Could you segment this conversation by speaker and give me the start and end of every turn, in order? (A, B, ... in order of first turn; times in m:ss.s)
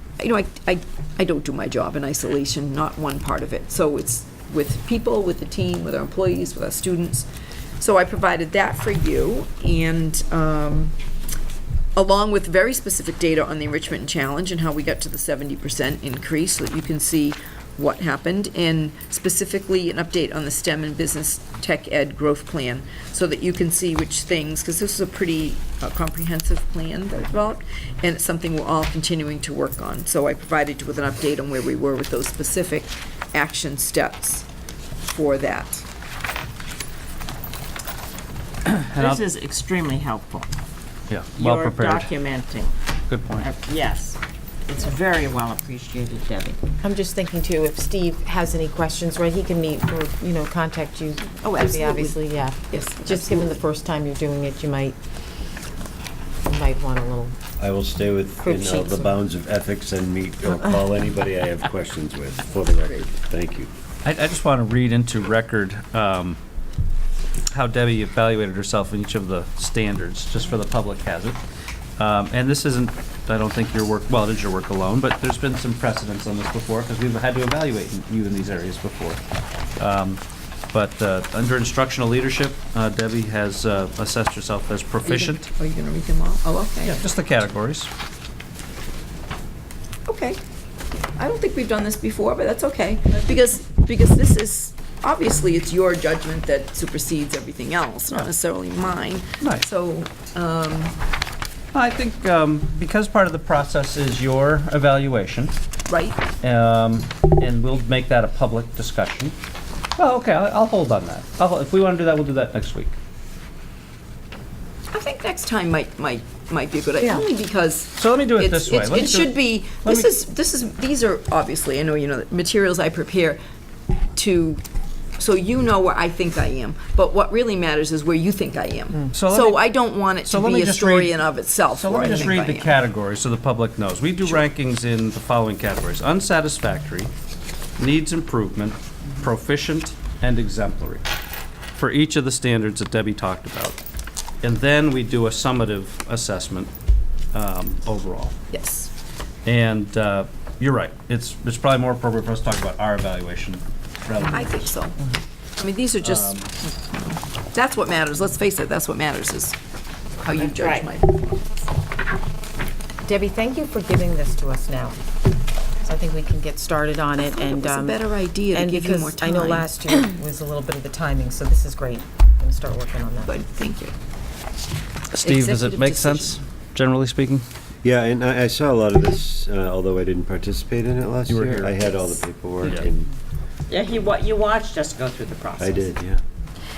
0:00.2-0:07.3 A
0:07.8-0:10.9 A
0:12.0-0:34.5 A
0:35.0-0:35.9 A
0:38.7-0:39.2 B
0:38.9-0:40.5 C
0:41.1-0:42.1 B
0:41.4-0:42.7 C
0:43.1-0:43.5 B
0:43.4-0:44.2 C
0:44.7-0:46.6 C
0:46.8-0:55.0 D
0:51.4-0:52.1 C
0:52.7-0:53.5 A
0:56.4-0:57.4 D
0:57.6-1:03.7 E
0:58.4-0:59.2 D
1:04.0-1:06.4 B
1:07.5-1:11.4 B
1:12.0-1:19.2 B
1:19.8-1:20.2 B
1:20.7-1:25.5 B
1:25.0-1:27.0 A
1:26.8-1:27.9 B
1:30.1-1:30.4 A
1:31.2-1:41.0 A
1:39.4-1:39.7 B
1:41.7-1:45.5 B
1:45.9-1:46.2 A
1:46.4-1:49.4 B
1:50.0-1:52.9 B
1:54.9-2:03.4 A
1:58.0-2:00.1 B
2:04.2-2:04.6 A
2:05.2-2:12.8 A
2:09.1-2:11.2 B
2:11.7-2:17.1 B
2:17.8-2:21.0 B
2:21.8-2:23.8 B
2:24.4-2:26.7 B
2:27.3-2:28.4 B
2:28.5-2:28.9 A
2:29.4-2:34.7 B
2:34.3-2:35.0 A
2:35.6-2:36.4 A
2:36.0-2:36.5 B
2:37.5-2:39.6 A
2:40.2-2:41.5 A
2:40.6-2:40.9 C
2:43.1-2:45.0 D
2:45.8-2:53.4 D
2:47.2-2:49.7 A
2:53.3-2:53.9 A
2:55.1-2:57.4 B
2:55.2-2:56.4 A
2:57.8-3:03.1 E
3:01.3-3:01.8 B
3:03.7-3:05.9 C
3:05.6-3:06.2 E